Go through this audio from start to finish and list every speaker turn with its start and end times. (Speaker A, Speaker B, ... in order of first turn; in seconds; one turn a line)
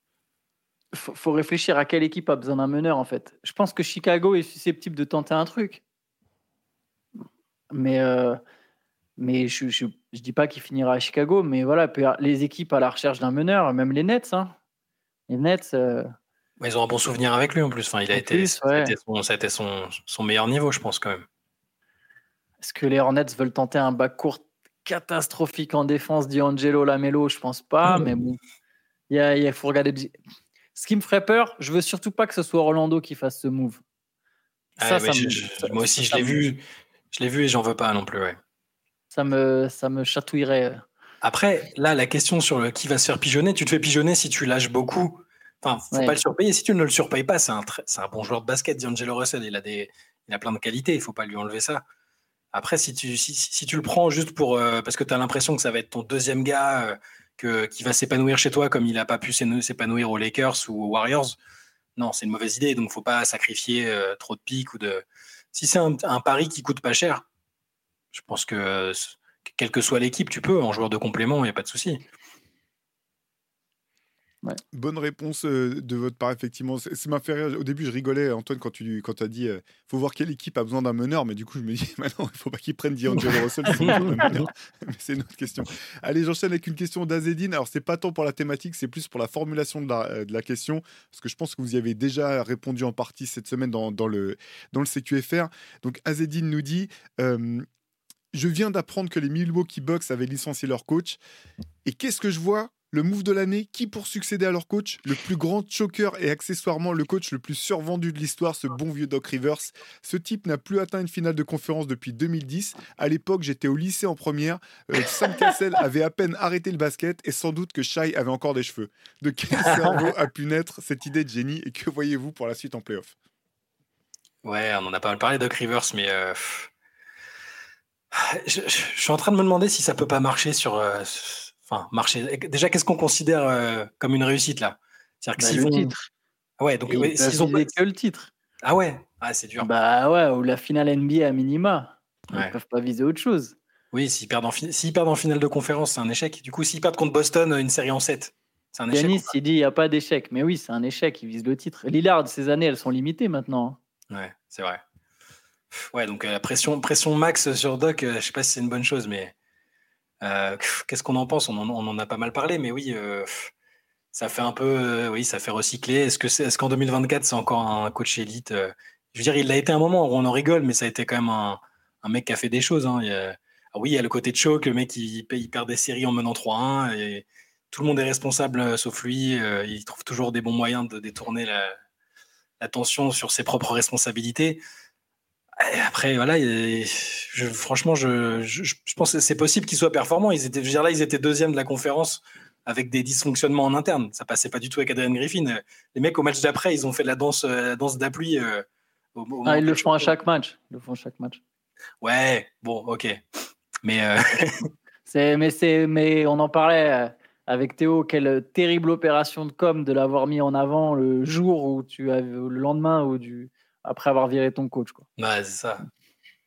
Speaker A: 0.9-5.8
Speaker A: 7.7-8.4
Speaker A: 9.2-14.5
Speaker A: 15.3-16.1
Speaker B: 16.6-21.2
Speaker A: 18.1-18.9
Speaker A: 22.6-28.4
Speaker A: 29.1-30.1
Speaker A: 30.8-33.8
Speaker B: 34.8-38.4
Speaker A: 34.8-36.5
Speaker A: 39.1-40.8
Speaker B: 41.2-51.8
Speaker A: 45.9-46.2
Speaker B: 52.5-61.4
Speaker B: 62.0-67.2
Speaker B: 68.1-72.0
Speaker C: 74.7-97.7
Speaker A: 83.8-84.3
Speaker C: 98.3-101.2
Speaker C: 101.8-123.2
Speaker B: 119.6-120.1
Speaker B: 124.4-126.7
Speaker B: 128.1-135.9
Speaker A: 135.4-136.1
Speaker B: 136.6-137.7
Speaker A: 136.9-138.3
Speaker B: 138.6-139.7
Speaker A: 139.6-143.6
Speaker B: 143.9-149.3
Speaker A: 148.9-153.8
Speaker B: 154.1-154.8
Speaker B: 155.7-159.3
Speaker B: 160.2-163.5
Speaker B: 164.1-181.7
Speaker B: 182.6-184.6
Speaker B: 185.6-200.1
Speaker A: 199.5-201.4
Speaker B: 202.0-204.7
Speaker A: 205.1-215.1
Speaker B: 215.2-215.8